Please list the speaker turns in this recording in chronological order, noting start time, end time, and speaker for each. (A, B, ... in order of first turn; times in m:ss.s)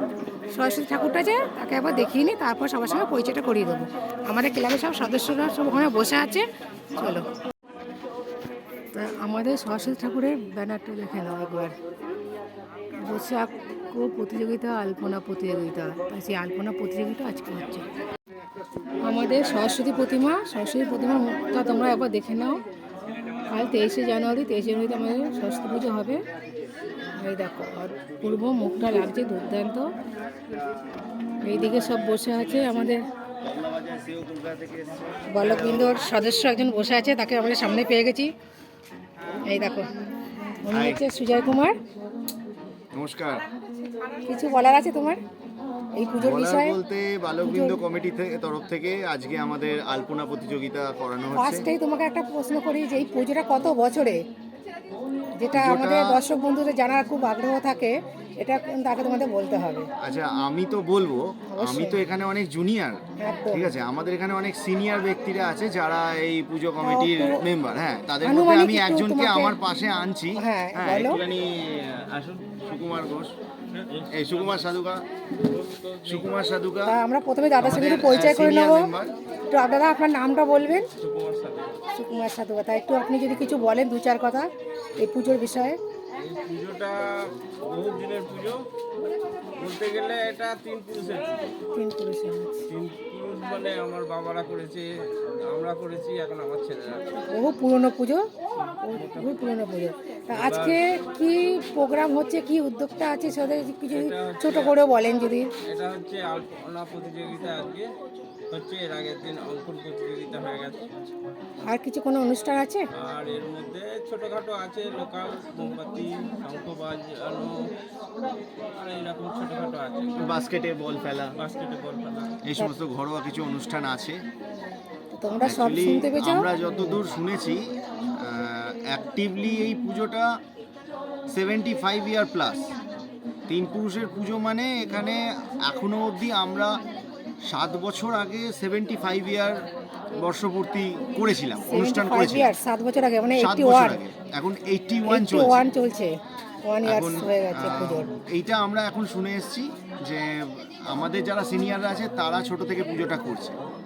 0:00.5-0:07.3 A
0:08.9-0:11.8 A
0:13.0-0:17.8 A
0:19.0-0:22.6 A
0:23.5-0:26.2 A
0:27.2-0:29.9 A
0:30.4-0:30.8 B
0:31.4-0:33.0 A
0:33.4-0:36.1 B
0:35.3-0:38.3 A
0:39.4-0:39.9 A
0:40.6-0:41.8 A
0:40.7-0:41.0 B
0:42.9-0:43.5 B
0:44.2-0:45.2 A
0:46.0-0:46.8 A
0:46.2-0:51.6 B
0:47.4-0:47.8 A
0:51.4-0:54.2 A
0:55.4-0:59.9 A
0:55.5-0:56.2 B
1:00.0-1:13.3 B
1:01.5-1:02.0 A
1:03.2-1:03.7 A
1:06.8-1:07.4 A
1:08.2-1:09.5 A
1:10.4-1:11.2 A
1:13.7-1:14.7 C
1:14.1-1:15.0 B
1:15.4-1:16.3 C
1:16.0-1:17.0 B
1:16.8-1:18.9 A
1:17.6-1:19.1 B
1:19.5-1:20.9 A
1:21.0-1:21.8 C
1:21.9-1:25.8 A
1:26.2-1:27.0 C
1:27.6-1:28.6 C
1:29.6-1:31.5 C
1:31.7-1:32.6 A
1:32.7-1:37.2 C
1:37.3-1:38.2 A
1:38.6-1:39.3 C
1:38.8-1:45.5 A
1:40.3-1:40.8 C
1:43.9-1:44.8 C
1:45.6-1:47.9 C
1:48.5-1:50.9 C
1:51.6-1:52.8 A
1:53.0-1:57.6 C
1:58.7-2:00.3 C
2:00.2-2:01.3 B
2:01.4-2:02.4 C
2:02.4-2:04.2 B
2:05.1-2:06.4 A
2:05.4-2:07.6 B
2:08.2-2:10.3 B
2:11.3-2:12.7 B
2:13.5-2:16.8 B
2:17.5-2:19.6 B
2:20.1-2:22.5 B
2:21.7-2:24.0 A
2:23.4-2:25.6 B
2:25.1-2:26.1 A
2:26.6-2:28.1 A
2:26.8-2:33.6 B